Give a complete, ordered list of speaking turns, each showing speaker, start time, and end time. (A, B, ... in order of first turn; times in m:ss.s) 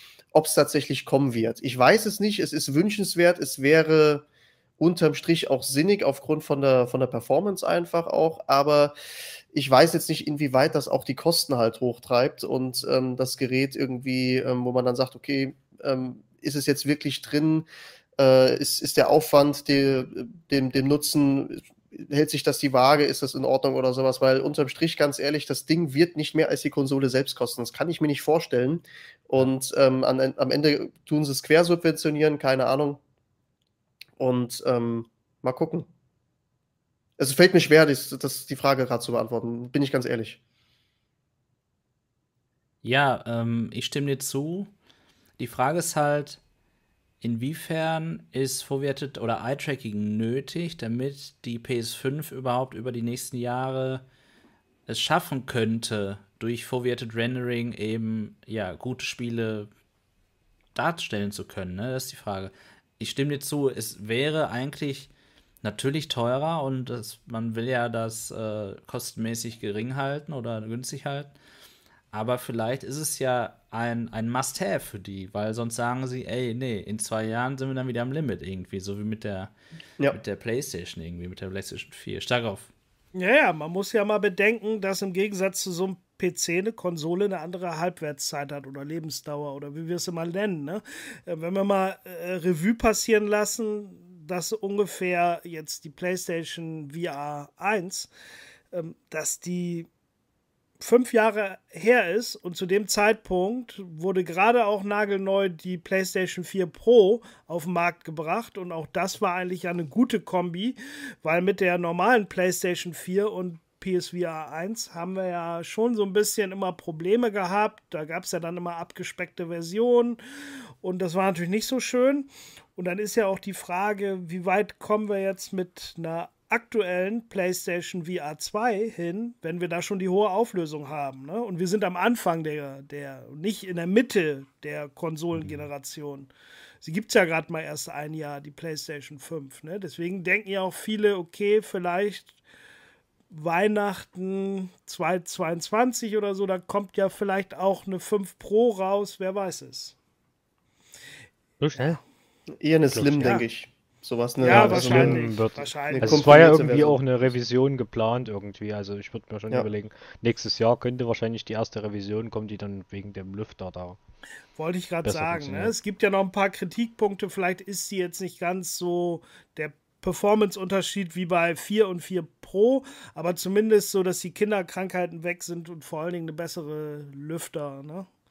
0:00.3-0:04.3 A
0:04.8-0:08.9 A
0:09.5-0:17.7 A
0:18.2-0:33.0 A
0:34.2-0:35.9 A
0:37.2-0:40.4 A
0:42.8-0:44.7 B
0:45.4-0:46.4 B
0:47.2-0:54.0 B
0:54.9-0:59.7 B
1:00.8-1:05.1 B
1:05.6-1:11.4 B
1:12.1-1:19.5 B
1:20.1-1:22.7 B
1:23.2-1:38.1 C
1:38.7-1:39.9 C
1:40.8-2:00.2 C
2:00.8-2:16.3 C
2:16.8-2:22.4 C
2:23.3-2:30.0 C
2:31.6-2:32.0 D
2:32.6-2:35.3 A
2:32.9-2:33.4 D
2:34.4-2:36.5 C
2:34.4-2:44.0 D
2:35.9-2:37.0 A
2:44.6-2:58.1 C
2:45.0-2:45.7 D